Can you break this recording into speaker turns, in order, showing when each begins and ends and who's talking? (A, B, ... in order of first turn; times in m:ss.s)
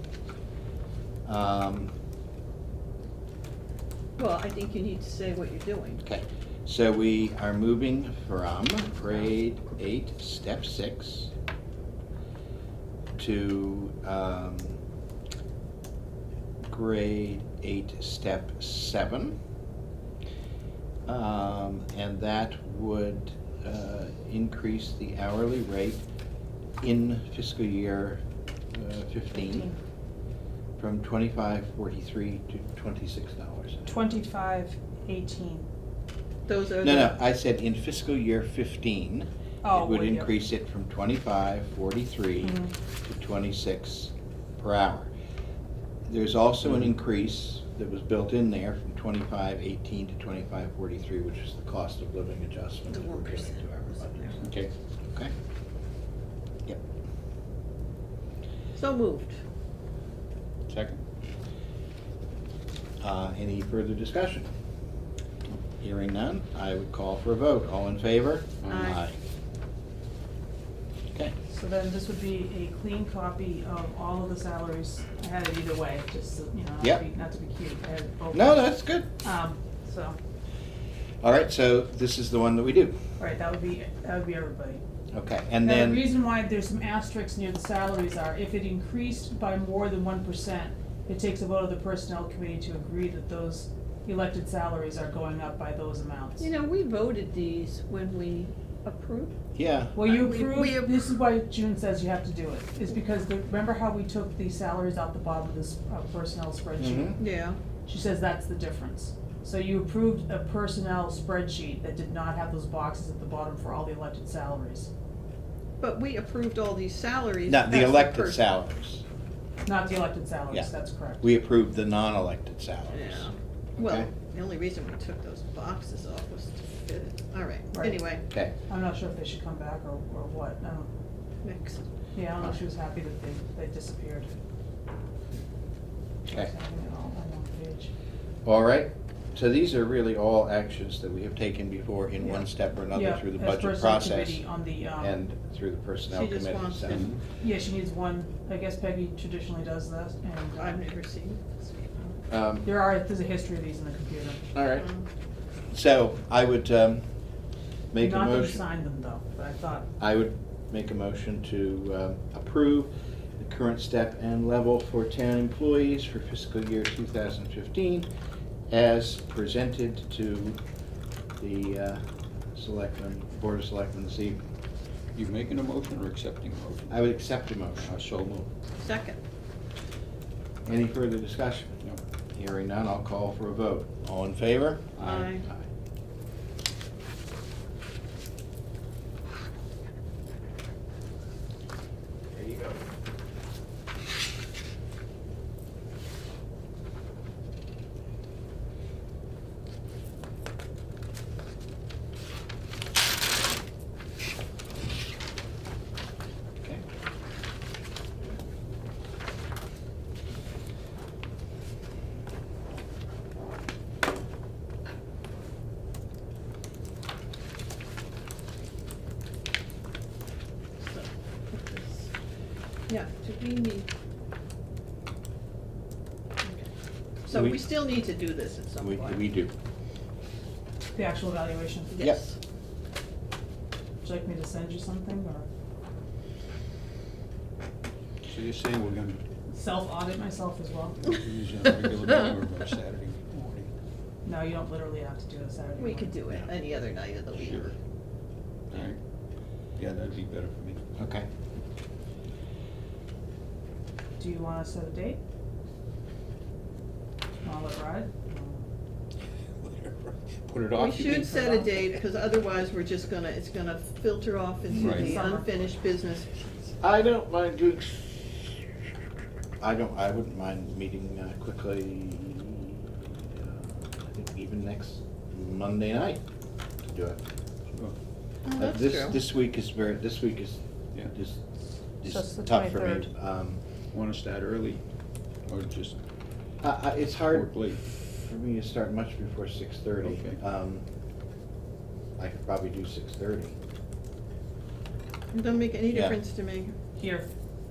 0:01.3-0:01.9 A
0:04.2-0:06.0 B
0:06.0-0:11.3 A
0:13.2-0:14.8 A
0:16.7-0:19.4 A
0:21.1-0:26.0 A
0:26.8-0:28.2 A
0:28.7-0:29.7 A
0:29.4-0:29.8 C
0:30.8-0:34.0 A
0:33.9-0:35.7 C
0:36.5-0:37.2 B
0:36.8-0:45.1 A
0:39.6-0:40.3 C
0:42.4-0:42.7 C
0:46.1-0:54.4 A
0:52.9-0:54.4 B
0:54.4-0:54.7 D
0:58.8-0:59.4 B
1:00.7-1:01.0 D
1:03.0-1:04.5 A
1:05.8-1:09.2 A
1:08.6-1:09.0 D
1:08.7-1:09.0 B
1:11.5-1:20.2 C
1:18.3-1:19.1 A
1:21.2-1:23.0 A
1:23.2-1:24.8 C
1:25.1-1:26.1 A
1:25.6-1:36.5 C
1:36.4-1:39.4 B
1:39.6-1:40.0 A
1:39.9-1:47.2 C
1:40.1-1:41.1 B
1:46.8-1:47.2 A
1:47.2-1:47.6 B
1:47.9-1:54.9 C
1:55.8-1:58.4 B
1:57.5-1:59.0 A
1:59.6-2:01.2 C
2:00.5-2:04.1 A
2:02.9-2:08.3 B
2:08.7-2:10.9 C
2:11.4-2:11.8 B
2:12.1-2:14.4 C
2:16.2-2:17.9 C
2:18.4-2:24.4 A
2:22.2-2:25.2 C
2:25.0-2:27.1 A
2:26.1-2:27.1 B
2:26.9-2:27.2 D
2:27.4-2:30.9 C
2:30.6-2:32.2 B
2:32.3-2:32.7 A
2:32.6-2:34.5 C
2:34.5-2:34.9 A
2:34.8-2:35.0 B
2:35.7-2:37.0 A
2:37.9-2:38.6 A
2:38.0-2:39.9 C
2:40.0-2:48.1 A
2:48.7-2:50.6 A
2:51.4-2:52.0 A
2:52.6-2:54.4 A
2:55.2-2:57.3 D
2:56.9-2:58.0 A
2:57.8-2:58.5 D
2:58.8-2:59.2 B
3:00.7-3:01.8 A
3:02.4-3:05.7 A
3:05.0-3:05.3 D
3:05.0-3:05.5 B
3:12.3-3:12.8 A
3:40.8-3:42.1 B
3:42.9-3:43.9 B
3:46.4-3:46.7 B
3:47.2-3:49.2 B
3:47.3-3:47.6 A
3:48.8-3:49.5 A
3:50.9-3:51.9 C
3:51.9-3:52.4 B
3:52.0-3:52.2 A
3:54.0-3:55.5 C
3:58.3-3:59.2 D
3:59.5-4:01.0 C
4:01.0-4:03.7 D
4:04.2-4:06.2 C
4:05.8-4:07.7 B
4:07.3-4:07.8 D
4:08.7-4:09.0 D
4:09.8-4:10.8 D
4:11.0-4:11.3 A
4:14.2-4:15.2 C
4:17.4-4:18.7 C
4:19.6-4:21.5 D
4:20.8-4:26.7 B
4:21.1-4:21.8 C
4:24.7-4:25.0 A
4:24.7-4:25.2 D
4:24.9-4:25.6 C
4:26.8-4:28.5 A
4:29.6-4:36.2 A
4:36.8-4:37.2 A
4:38.4-4:39.2 B
4:38.6-4:41.4 A
4:42.0-4:43.6 A
4:42.1-4:43.1 C
4:43.9-4:44.8 D
4:45.5-4:46.0 D
4:46.6-4:47.5 A
4:47.3-4:47.8 D
4:48.2-4:50.8 A
4:50.0-4:50.4 D
4:52.2-4:53.6 A
4:55.3-4:56.8 B
4:55.9-4:56.2 A